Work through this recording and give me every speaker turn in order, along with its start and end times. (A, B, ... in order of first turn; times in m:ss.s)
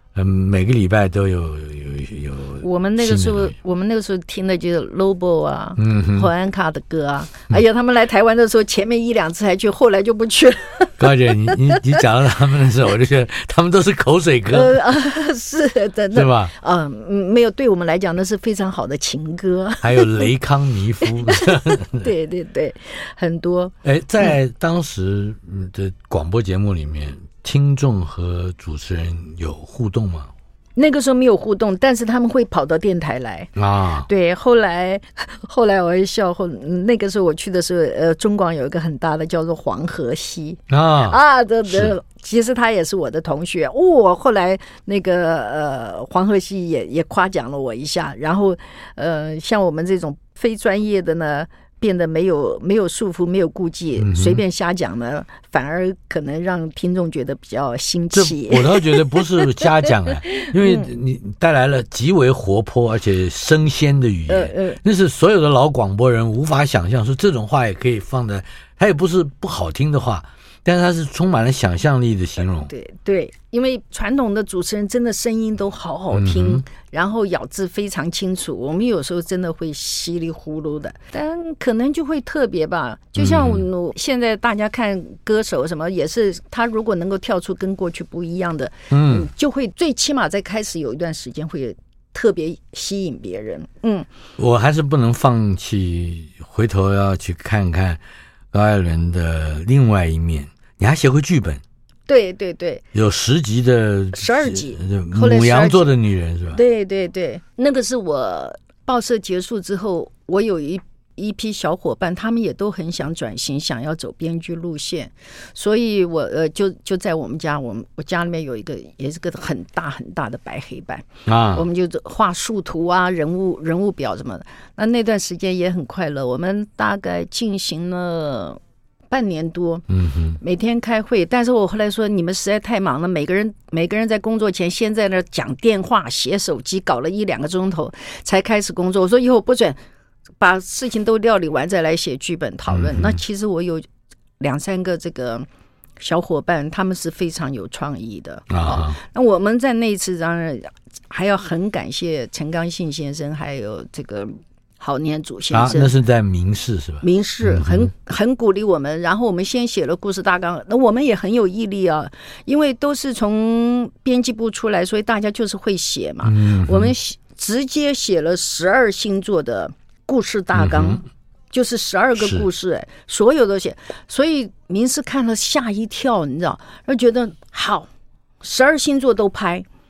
0:00.1-0:03.5 A
0:02.6-0:11.8 B
0:05.8-0:06.3 A
0:11.0-0:14.8 A
0:14.5-0:20.3 B
0:16.1-0:16.5 A
0:19.8-0:22.1 A
0:21.2-0:24.3 B
0:23.8-0:30.3 A
0:30.8-0:33.5 B
0:33.6-0:34.1 A
0:34.0-0:59.6 B
0:40.7-0:41.9 A
0:54.0-0:54.4 A
0:58.1-1:12.7 A
1:00.3-1:00.9 B
1:04.3-1:04.8 B
1:12.7-1:34.1 B
1:16.1-1:16.6 A
1:23.2-1:23.6 A
1:28.9-1:29.3 A
1:34.4-1:38.0 A
1:38.5-1:41.6 A
1:42.1-1:42.8 B
1:42.9-1:46.6 A
1:44.1-1:45.9 B
1:46.5-2:09.8 B
2:01.2-2:01.6 A
2:09.9-2:10.4 A
2:10.4-2:19.8 B
2:20.4-2:23.8 B
2:22.7-2:23.2 A
2:24.4-2:25.5 B
2:26.0-2:35.9 B
2:28.5-2:29.0 A
2:35.5-2:37.9 A
2:37.0-2:57.9 B
2:46.2-2:46.9 A
2:50.5-2:51.0 A
2:52.2-2:52.4 A
2:58.4-2:59.6 B